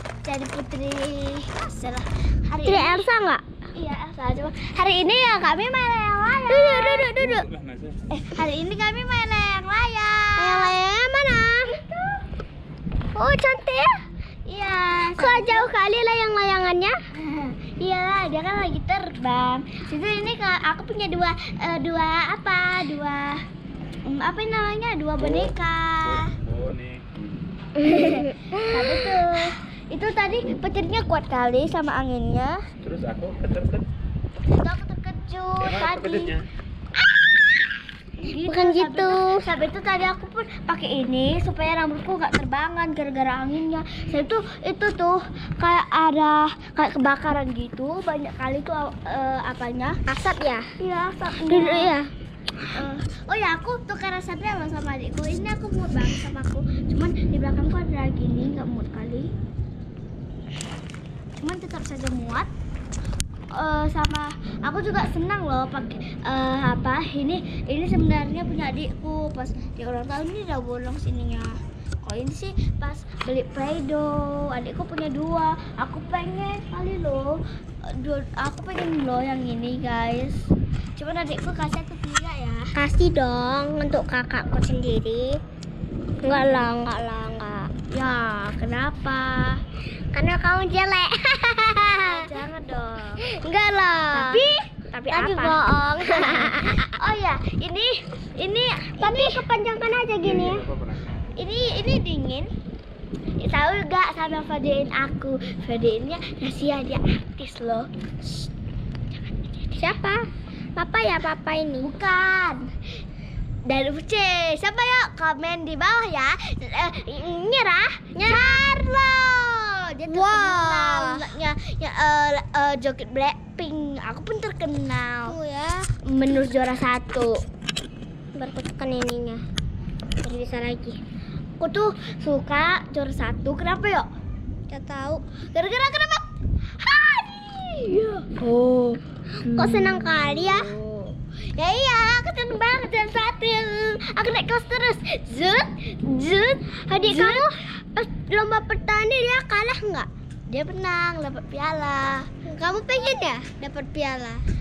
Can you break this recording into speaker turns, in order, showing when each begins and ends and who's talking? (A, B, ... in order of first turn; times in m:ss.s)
0:00.2-0:03.1 A
0:02.6-0:03.4 B
0:03.7-0:07.4 A
0:06.5-0:07.4 B
0:07.4-0:08.0 C
0:08.1-0:10.7 A
0:10.4-0:11.8 B
0:11.9-0:12.2 A
0:13.1-0:14.0 B
0:14.4-0:15.7 A
0:15.2-0:17.0 B
0:17.2-0:23.4 A
0:24.0-0:26.4 A
0:26.1-0:27.1 C
0:27.8-0:32.6 A
0:27.8-0:29.2 B
0:32.8-0:33.8 C
0:34.4-0:36.4 A
0:35.6-0:36.4 C
0:38.2-0:50.0 A
0:38.4-0:39.5 B
0:50.1-0:50.7 B
0:50.8-0:51.9 A
0:51.5-0:52.1 B
0:52.7-0:59.3 A
1:01.4-1:02.5 A
1:03.5-1:17.4 A
1:17.9-1:22.7 A
1:22.7-1:25.4 B
1:26.2-1:27.7 B
1:26.2-1:26.6 A
1:27.9-1:29.6 A
1:30.1-1:32.3 B
1:31.9-1:33.2 A
1:33.2-1:34.5 B
1:34.1-1:39.4 A
1:35.1-1:36.9 B
1:39.0-1:40.7 B
1:40.4-1:41.0 C
1:41.4-1:42.5 A
1:43.4-1:48.5 A
1:49.2-1:49.7 A
1:49.8-1:51.9 B
1:51.8-1:52.6 A
1:53.6-2:05.4 A
1:58.1-1:58.7 B
2:00.1-2:01.2 B
2:05.2-2:05.9 B
2:06.0-2:07.4 A
2:08.3-2:09.4 B
2:10.2-2:11.0 B
2:11.6-2:14.1 A
2:14.7-2:15.2 B
2:15.5-2:16.2 A
2:16.8-2:27.5 A
2:19.4-2:20.7 B
2:26.9-2:30.1 B
2:30.5-2:32.3 A
2:32.4-2:34.4 B